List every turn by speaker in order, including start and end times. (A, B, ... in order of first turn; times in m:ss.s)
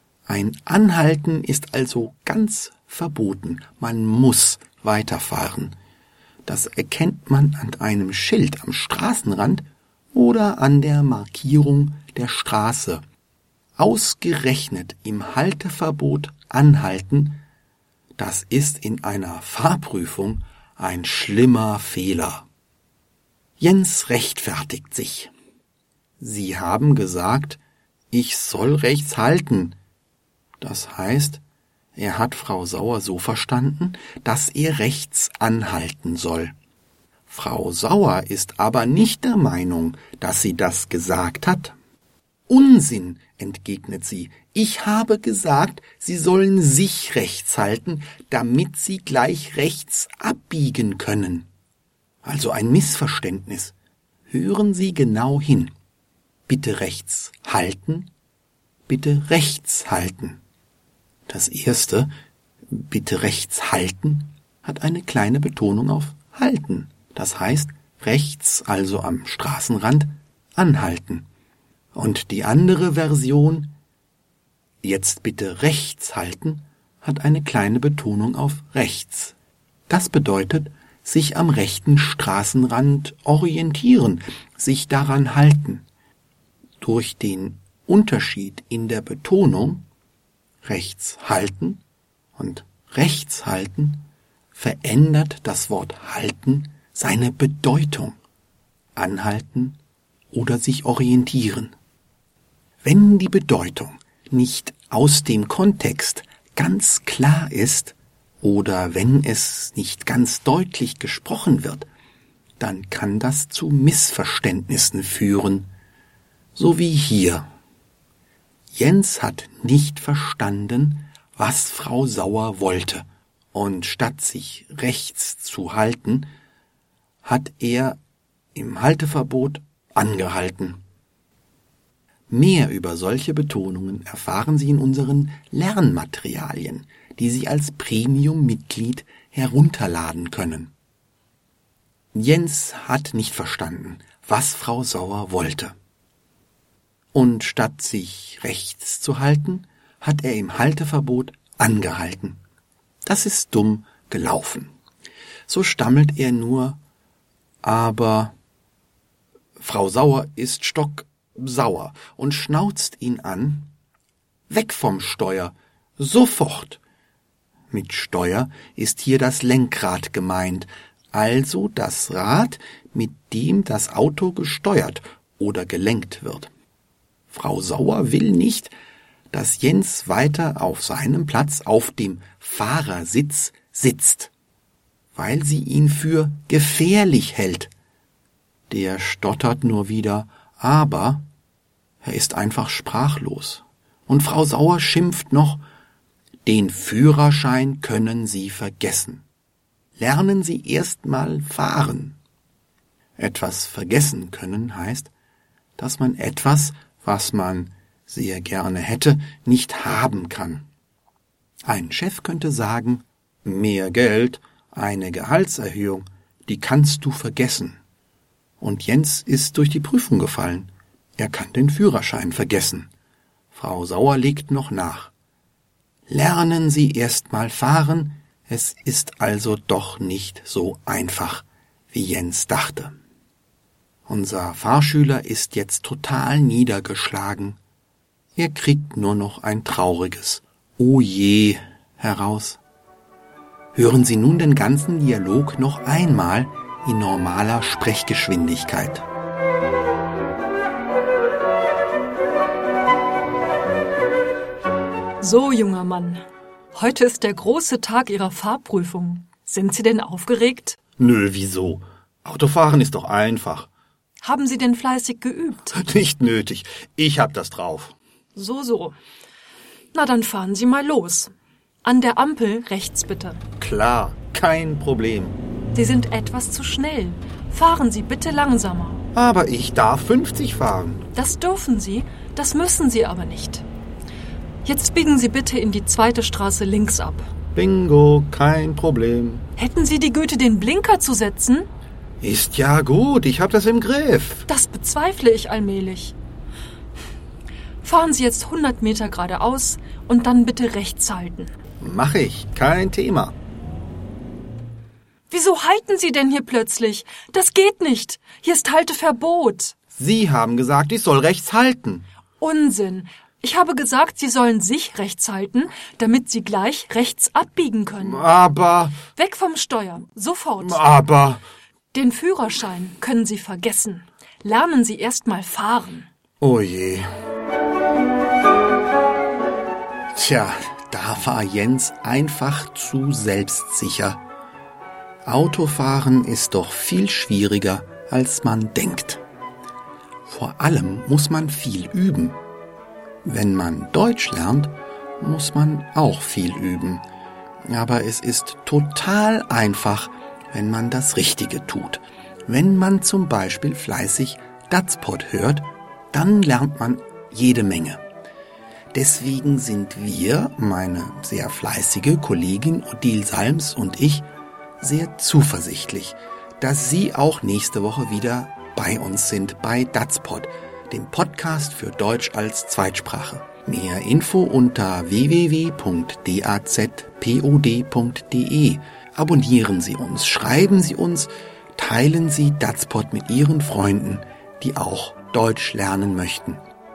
0:00.3-0:05.8 A
0:06.5-0:13.0 A
0:13.8-0:17.4 A
0:18.2-0:22.5 A
0:23.6-0:25.3 A
0:26.2-0:27.6 A
0:28.1-0:29.8 A
0:30.6-0:31.4 A
0:32.0-0:36.5 A
0:37.3-0:41.8 A
0:42.5-0:51.5 A
0:52.2-0:53.8 A
0:54.3-0:55.7 A
0:56.5-0:58.1 A
0:58.9-1:00.4 A
1:01.3-1:02.1 A
1:02.7-1:11.3 A
1:11.9-1:13.7 A
1:14.8-1:19.4 A
1:19.9-1:25.9 A
1:26.8-1:29.8 A
1:30.6-1:31.8 A
1:32.4-1:38.2 A
1:39.0-1:39.8 A
1:40.3-1:41.7 A
1:42.8-1:51.9 A
1:52.6-1:55.7 A
1:56.6-1:57.5 A
1:58.7-2:06.3 A
2:07.2-2:08.0 A
2:08.6-2:10.8 A
2:12.3-2:20.7 A
2:22.1-2:25.8 A
2:27.1-2:32.4 A
2:33.1-2:34.7 A
2:35.5-2:36.8 A
2:37.6-2:38.3 A
2:39.6-2:43.7 A
2:44.5-2:46.8 A
2:47.7-2:56.5 A
2:57.3-2:58.7 A
2:59.3-3:04.3 A
3:05.1-3:07.7 A
3:08.7-3:11.2 A
3:12.0-3:15.6 A
3:16.4-3:19.2 A
3:20.0-3:22.2 A
3:23.2-3:25.1 A
3:25.8-3:30.7 A
3:31.7-3:37.8 A
3:38.6-3:42.9 A
3:43.5-3:45.1 A
3:46.1-3:53.0 A
3:54.1-3:57.6 A
3:58.4-4:02.6 A
4:03.7-4:09.0 A
4:15.2-4:16.2 B
4:16.7-4:20.8 B
4:21.0-4:23.7 A
4:24.2-4:25.8 B
4:25.7-4:28.0 A
4:28.4-4:29.0 B
4:29.9-4:31.3 B
4:31.8-4:33.4 B
4:33.6-4:35.4 A
4:35.7-4:39.1 B
4:39.1-4:41.0 A
4:41.2-4:43.7 B
4:44.6-4:47.3 B
4:47.5-4:49.5 A
4:49.6-4:51.7 B
4:52.2-4:54.5 A
4:54.5-4:56.2 B
4:57.8-5:01.5 B
5:01.8-5:03.4 A
5:05.3-5:09.8 B
5:09.9-5:12.0 A
5:12.4-5:18.2 B
5:18.0-5:19.0 A
5:19.1-5:20.9 B
5:20.6-5:21.4 A
5:21.9-5:26.1 B
5:26.4-5:27.1 A
5:30.1-5:34.2 A
5:35.2-5:39.2 A
5:40.3-5:42.4 A
5:43.2-5:47.0 A
5:47.7-5:58.0 A
5:58.9-6:04.3 A
6:04.8-6:26.6 A